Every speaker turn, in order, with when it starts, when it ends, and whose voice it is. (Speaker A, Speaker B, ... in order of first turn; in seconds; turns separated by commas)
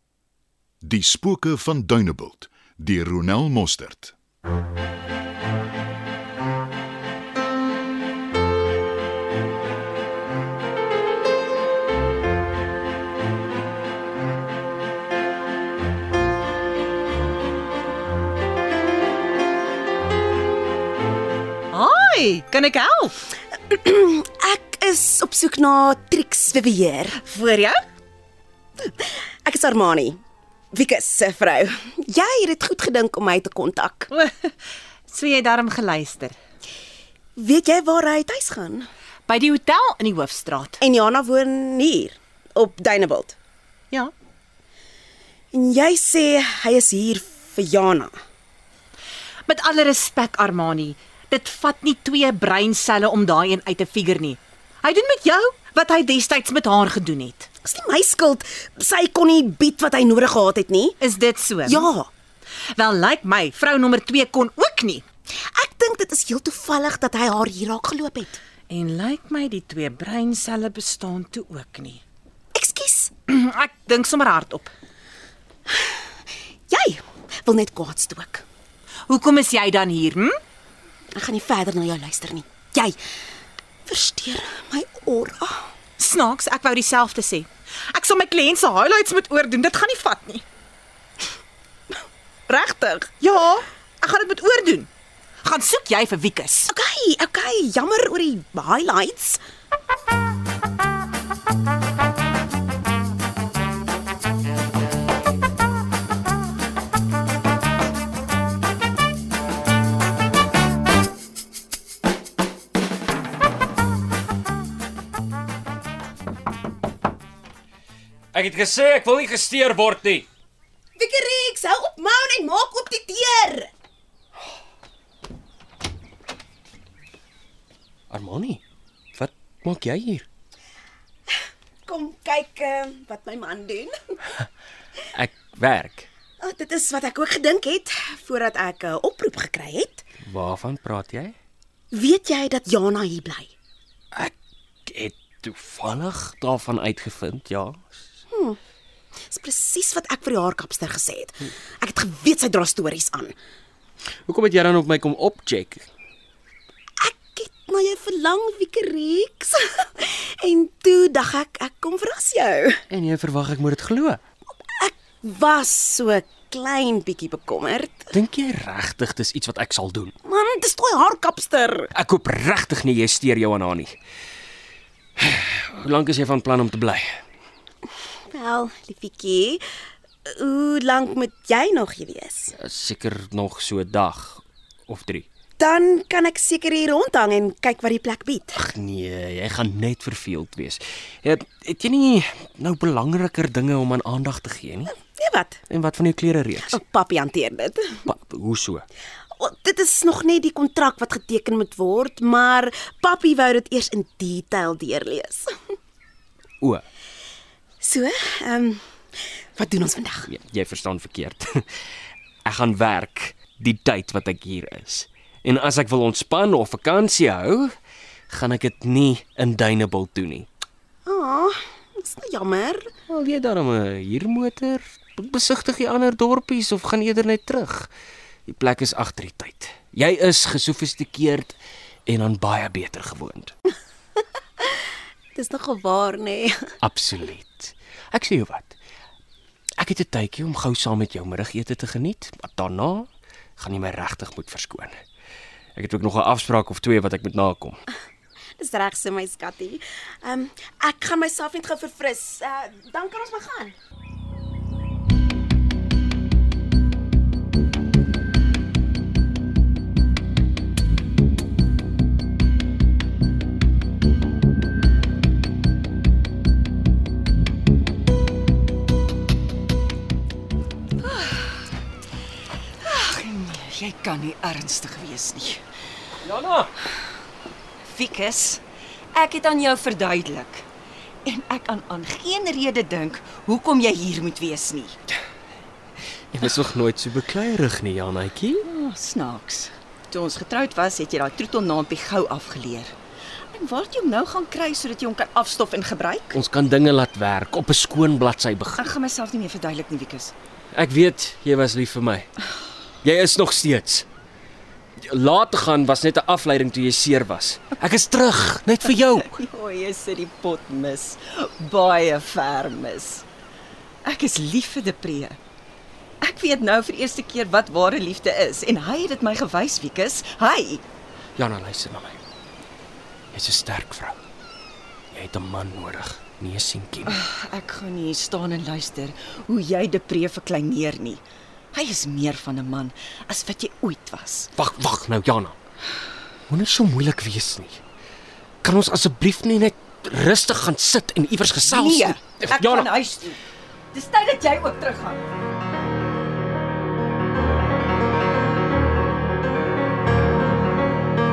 Speaker A: 0.8-4.1, Speaker B: 21.7-23.2, Speaker C: 23.7-27.1, Speaker B: 27.1-27.8, Speaker C: 29.0-30.2, Speaker C: 30.7-34.1, Speaker B: 34.1-34.5, Speaker B: 35.1-36.4, Speaker C: 37.4-38.9, Speaker B: 39.3-40.8, Speaker C: 40.8-43.4, Speaker C: 45.5-48.1, Speaker B: 49.5-57.5, Speaker C: 57.6-61.0, Speaker B: 61.0-61.9, Speaker C: 61.6-62.1, Speaker B: 62.7-65.0, Speaker C: 65.5-68.4, Speaker B: 68.7-72.0, Speaker C: 72.5-73.1, Speaker B: 73.3-74.7, Speaker C: 76.7-78.4, Speaker B: 79.1-80.4, Speaker C: 81.1-83.0, Speaker C: 83.8-85.7, Speaker B: 86.0-90.4, Speaker C: 92.5-93.2, Speaker B: 93.2-94.9, Speaker B: 95.4-96.7, Speaker C: 96.7-99.4, Speaker D: 118.3-120.3, Speaker C: 121.0-123.7, Speaker D: 128.1-128.6, Speaker D: 129.1-130.2, Speaker C: 131.8-133.9, Speaker D: 135.1-136.1, Speaker C: 136.4-140.0, Speaker D: 140.2-141.3, Speaker C: 141.9-143.5, Speaker D: 144.8-147.8, Speaker C: 148.3-148.6, Speaker C: 149.3-153.3, Speaker D: 154.2-155.8, Speaker C: 157.0-162.8, Speaker D: 162.9-164.2, Speaker C: 164.8-168.1, Speaker D: 168.1-170.1, Speaker C: 170.2-171.9, Speaker D: 171.9-173.9, Speaker D: 175.2-177.1, Speaker C: 178.3-179.6, Speaker C: 180.3-182.5, Speaker D: 182.6-185.2, Speaker C: 185.6-188.6, Speaker D: 188.5-194.9, Speaker C: 195.0-195.6, Speaker D: 195.7-196.8, Speaker C: 196.7-198.0, Speaker D: 198.1-198.8, Speaker C: 199.3-205.5, Speaker C: 207.8-208.8, Speaker C: 209.6-210.3, Speaker D: 210.3-211.7, Speaker D: 212.4-217.7, Speaker D: 218.3-220.5, Speaker C: 221.0-222.9, Speaker D: 223.1-227.9, Speaker D: 228.5-233.5, Speaker C: 235.3-236.6, Speaker D: 236.8-238.7, Speaker D: 239.8-245.0, Speaker D: 245.8-247.8, Speaker C: 248.6-253.7, Speaker E: 271.0-271.6, Speaker E: 272.8-275.6, Speaker D: 276.2-276.7, Speaker E: 277.8-278.6, Speaker E: 279.1-280.6, Speaker E: 281.2-285.0, Speaker D: 286.3-288.7, Speaker E: 288.6-292.9, Speaker E: 293.5-296.4, Speaker D: 296.3-298.9, Speaker E: 298.8-300.3, Speaker D: 300.7-302.3, Speaker D: 303.0-304.1, Speaker D: 305.0-309.4, Speaker E: 309.2-313.2, Speaker E: 314.0-315.4, Speaker E: 316.2-320.8, Speaker D: 321.4-322.2, Speaker D: 323.3-324.2, Speaker D: 325.1-327.2, Speaker E: 327.1-331.2, Speaker E: 331.7-334.5, Speaker D: 334.6-335.5, Speaker D: 336.5-337.8, Speaker D: 338.6-342.9, Speaker E: 341.6-343.4, Speaker E: 343.9-345.2